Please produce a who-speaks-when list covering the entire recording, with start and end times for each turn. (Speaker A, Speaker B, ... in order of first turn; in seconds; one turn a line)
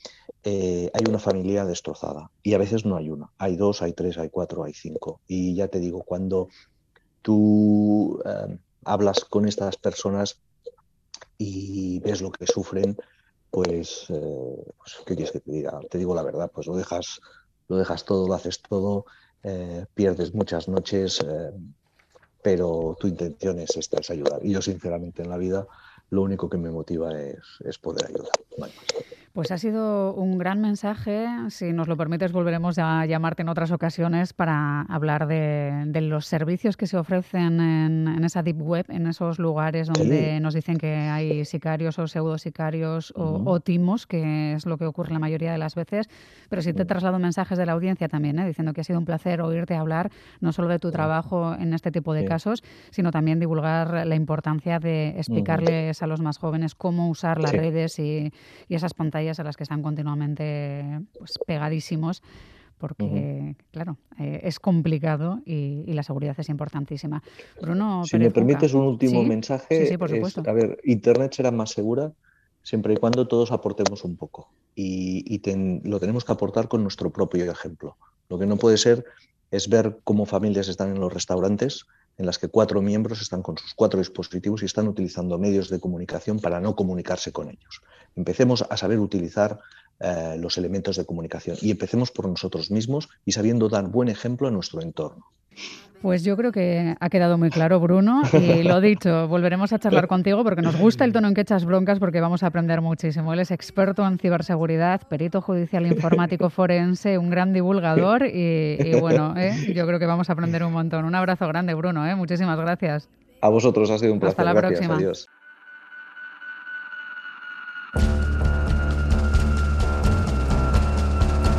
Speaker A: 0.4-6.5
Speaker A: 7.2-10.4
Speaker A: 11.4-13.0
Speaker A: 13.5-21.5
Speaker A: 22.4-29.0
Speaker B: 29.4-62.2
Speaker A: 39.9-40.3
Speaker A: 43.2-43.6
Speaker A: 55.3-55.7
Speaker B: 62.8-70.5
Speaker A: 63.0-63.3
Speaker A: 68.0-95.3
Speaker B: 96.0-113.1
Speaker A: 108.8-109.2
Speaker A: 113.4-115.3
Speaker B: 114.2-115.1